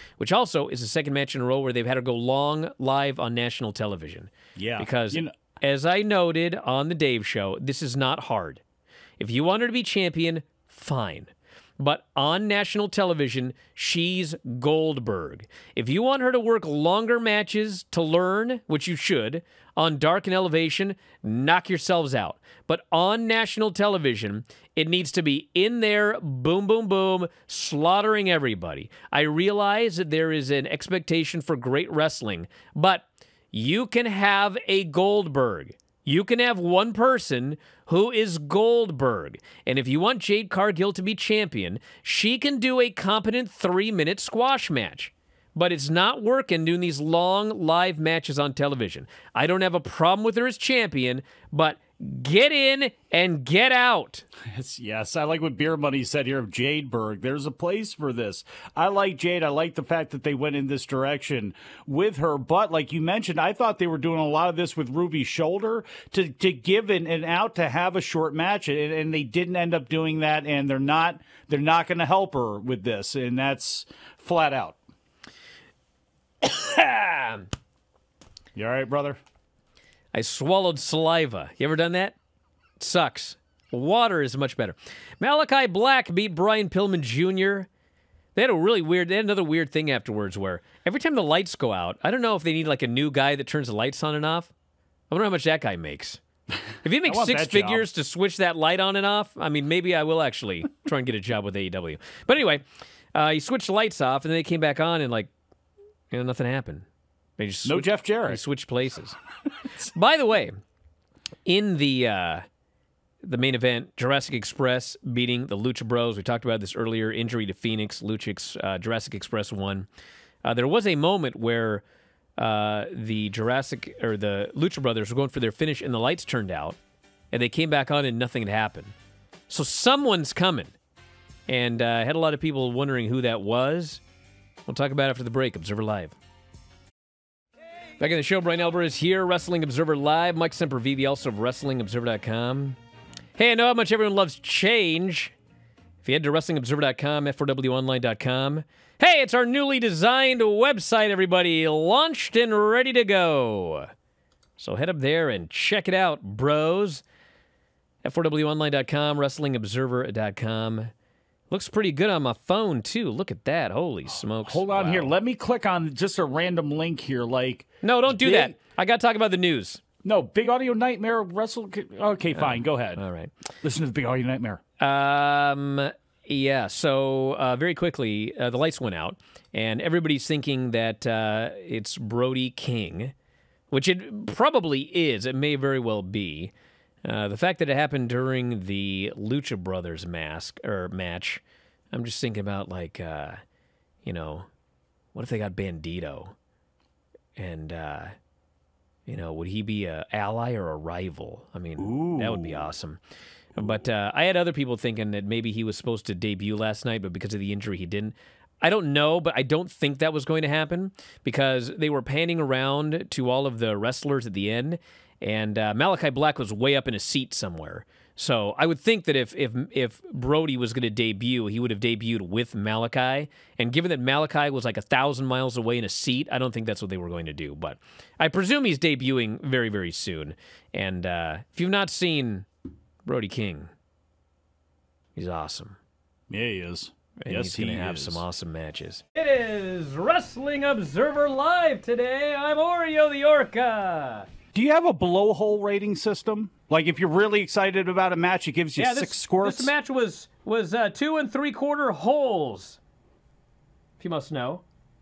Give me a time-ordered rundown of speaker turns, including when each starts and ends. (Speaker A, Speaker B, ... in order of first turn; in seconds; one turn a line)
Speaker A: 0.2-8.6
Speaker B: 4.5-5.3
Speaker A: 9.2-54.2
Speaker B: 54.5-74.8
Speaker A: 76.4-77.5
Speaker B: 78.5-79.2
Speaker A: 80.1-82.2
Speaker A: 82.8-87.7
Speaker A: 88.3-94.5
Speaker A: 95.1-96.2
Speaker A: 96.8-102.6
Speaker B: 97.0-97.8
Speaker A: 103.1-105.3
Speaker A: 106.1-106.8
Speaker A: 107.4-109.2
Speaker B: 107.7-108.4
Speaker A: 109.8-110.5
Speaker A: 111.5-112.4
Speaker A: 113.2-119.9
Speaker A: 120.4-121.8
Speaker A: 122.4-126.8
Speaker A: 127.3-128.9
Speaker A: 129.5-130.7
Speaker A: 131.5-134.0
Speaker A: 134.7-136.2
Speaker A: 138.0-142.8
Speaker A: 143.4-145.3
Speaker A: 146.0-153.9
Speaker A: 154.6-157.0
Speaker A: 158.0-160.9
Speaker A: 161.5-165.1
Speaker B: 164.4-168.5
Speaker A: 167.8-169.8
Speaker B: 170.0-173.0
Speaker A: 172.4-173.3
Speaker B: 173.6-174.6
Speaker A: 174.8-183.1
Speaker A: 183.7-186.5
Speaker A: 187.0-193.4
Speaker A: 194.0-194.5
Speaker A: 195.1-196.3
Speaker A: 197.3-198.1
Speaker A: 199.1-203.0
Speaker B: 201.8-202.6
Speaker A: 203.6-232.4
Speaker A: 233.0-233.7
Speaker A: 235.2-235.8
Speaker B: 236.3-238.2
Speaker A: 237.2-244.3
Speaker B: 244.5-249.7
Speaker A: 248.8-252.8
Speaker A: 254.0-254.6